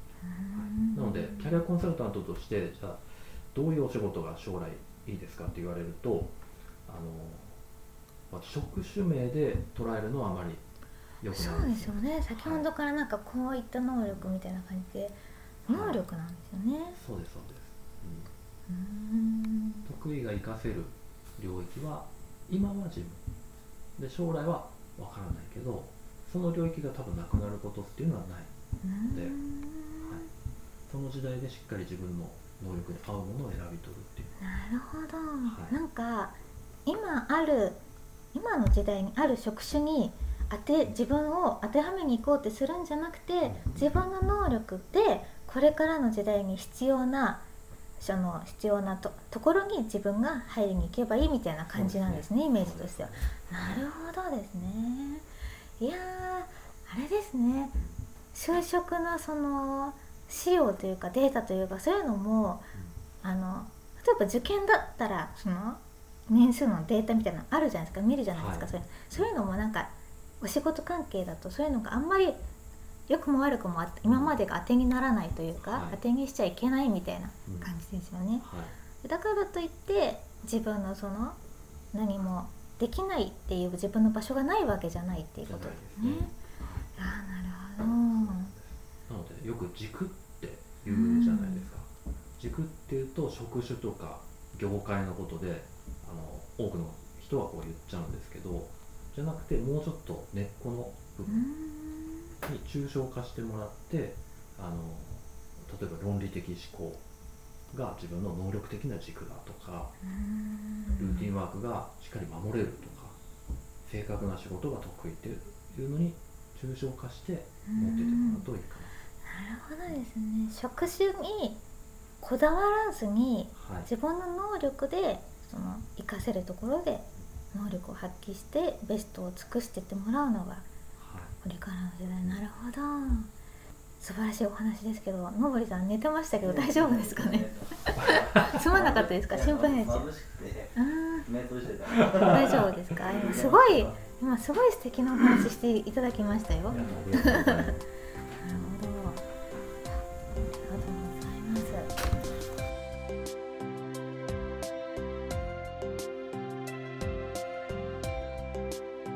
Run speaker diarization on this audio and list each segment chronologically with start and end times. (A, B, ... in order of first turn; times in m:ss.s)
0:00.2-0:01.6 A
0:00.5-0:06.3 B
0:06.9-0:07.6 B
0:08.3-0:10.6 B
0:11.2-0:12.7 B
0:11.3-0:17.0 A
0:15.7-0:16.0 B
0:16.9-0:18.3 B
0:18.7-0:19.8 A
0:19.8-0:23.2 B
0:24.0-0:28.5 B
0:28.8-0:30.3 A
0:29.1-0:29.4 B
0:30.9-0:34.3 B
0:34.4-0:37.8 A
0:35.4-0:35.8 B
0:38.3-0:47.4 A
0:43.4-0:44.0 B
0:48.0-0:55.2 A
0:51.7-0:53.9 B
0:55.8-0:57.8 A
0:58.3-1:02.7 A
1:03.2-1:12.4 A
1:08.3-1:09.3 B
1:13.1-1:18.5 A
1:14.0-1:14.4 B
1:15.7-1:16.0 B
1:17.5-1:17.7 B
1:18.4-1:18.7 B
1:19.0-1:21.4 A
1:21.9-1:26.3 A
1:25.4-1:27.0 B
1:27.0-1:28.5 A
1:27.8-1:41.5 B
1:30.8-1:31.7 A
1:41.3-1:42.3 A
1:42.4-1:47.0 B
1:47.7-1:49.9 B
1:50.0-1:51.3 A
1:51.0-1:53.2 B
1:53.8-1:58.9 B
1:57.7-1:58.5 A
1:59.2-2:01.6 A
2:02.2-2:10.7 A
2:03.5-2:03.9 B
2:11.0-2:11.4 B
2:11.4-2:13.3 A
2:14.0-2:20.1 A
2:16.4-2:20.7 C
2:20.7-2:21.3 A
2:21.2-2:23.9 C
2:22.0-2:27.8 A
2:22.3-2:22.7 B
2:26.7-2:27.8 B
2:28.4-2:29.2 A
2:30.4-2:31.9 A